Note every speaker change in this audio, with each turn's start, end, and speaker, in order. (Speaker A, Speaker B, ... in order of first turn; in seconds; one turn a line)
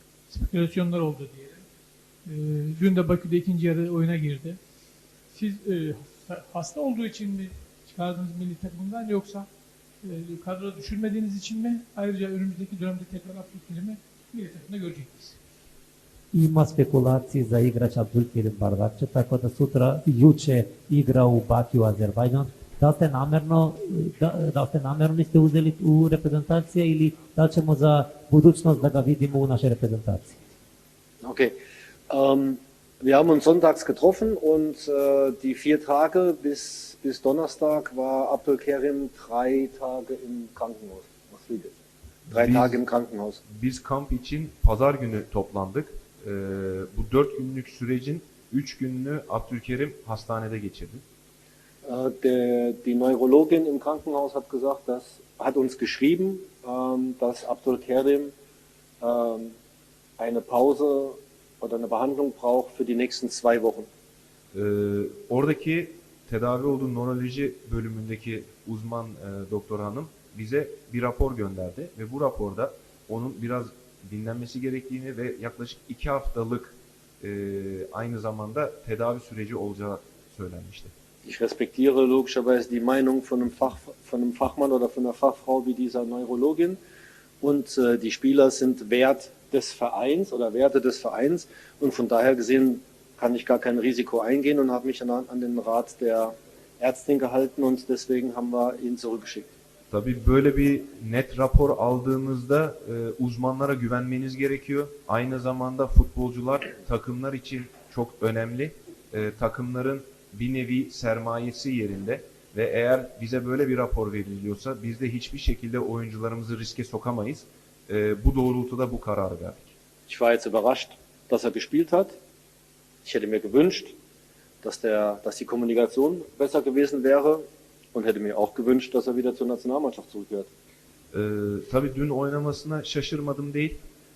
Speaker A: 0.3-1.6
Speaker A: 2.3-4.6
Speaker A: 5.3-9.5
Speaker A: 10.0-15.4
Speaker B: 16.3-30.4
Speaker C: 31.2-31.5
Speaker C: 32.1-41.7
Speaker D: 42.3-42.8
Speaker C: 42.3-43.4
Speaker D: 43.5-51.0
Speaker C: 51.9-58.3
Speaker C: 59.0-59.5
Speaker C: 60.2-63.9
Speaker D: 64.5-80.9
Speaker C: 81.3-86.8
Speaker C: 87.4-99.5
Speaker D: 99.9-119.7
Speaker C: 120.1-122.2
Speaker C: 123.0-124.0
Speaker C: 124.6-127.4
Speaker C: 127.9-130.5
Speaker D: 131.1-133.8